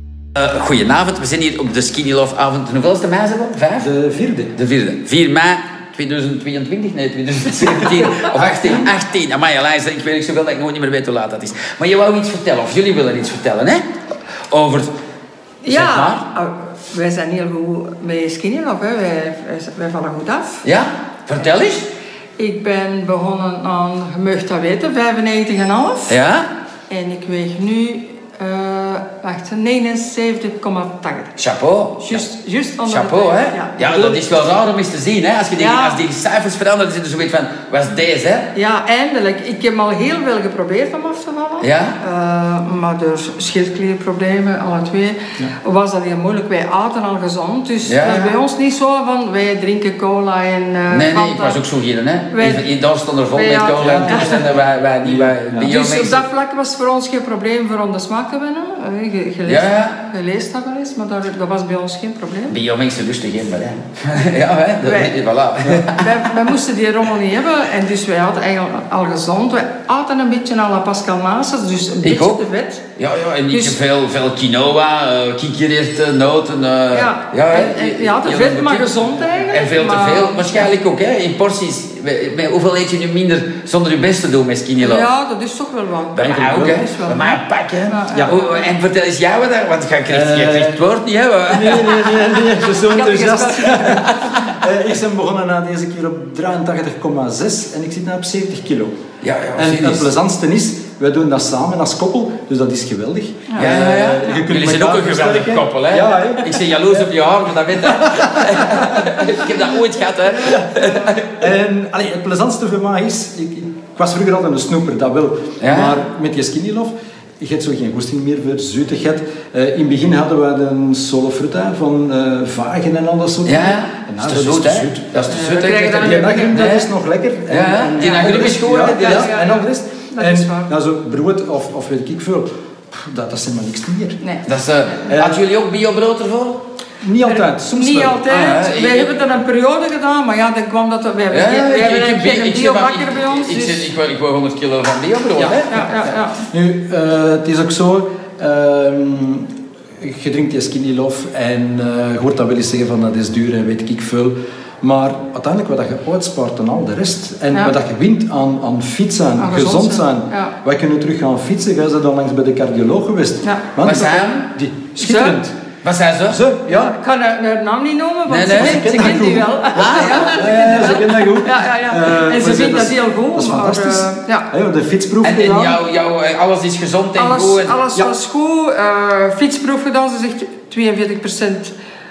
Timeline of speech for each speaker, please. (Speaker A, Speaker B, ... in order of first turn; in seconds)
Speaker A: 0.3-3.9, 4.5-13.8, 14.5-14.9, 15.7-16.2, 20.6-21.9, 26.1-26.5, 31.4-32.2, 32.9-38.5, 41.6-42.0, 47.9-48.4, 50.9-56.2, 59.5-60.0, 62.5-66.2, 72.0-72.4, 73.0-85.1, 86.1-92.3, 94.0-94.6, 99.2-100.1, 103.5-111.3, 115.6-116.0, 123.4-126.9, 127.5-129.3, 134.4-136.6, 138.3-139.2, 141.3-145.9, 163.8-164.5, 165.8-166.4, 168.2-169.0, 169.7-170.7, 175.2-177.8
Speaker B: 3.8-4.5, 33.8-34.1, 53.8-55.7, 86.3-86.8, 90.1-90.8, 91.5-98.9, 99.6-107.1, 107.8-109.0, 110.4-134.2, 135.1-135.4, 137.0-138.2, 145.3-145.7, 146.5-149.5, 150.0-165.5, 166.3-166.9, 168.4-175.6
Speaker C: 15.6-20.6, 22.4-26.1, 26.9-31.3, 32.0-33.7, 35.6-36.0, 38.5-51.6, 52.3-52.7, 53.3-54.5, 55.6-62.6, 64.8-65.2, 65.9-72.8, 73.5-73.8, 76.9-80.7, 84.8-88.7, 92.7-94.0, 125.3-126.7, 128.0-130.7, 137.2-143.9, 145.7-146.4, 159.4-160.5, 164.9-165.4, 166.7-174.5, 175.4-175.8, 177.1-181.7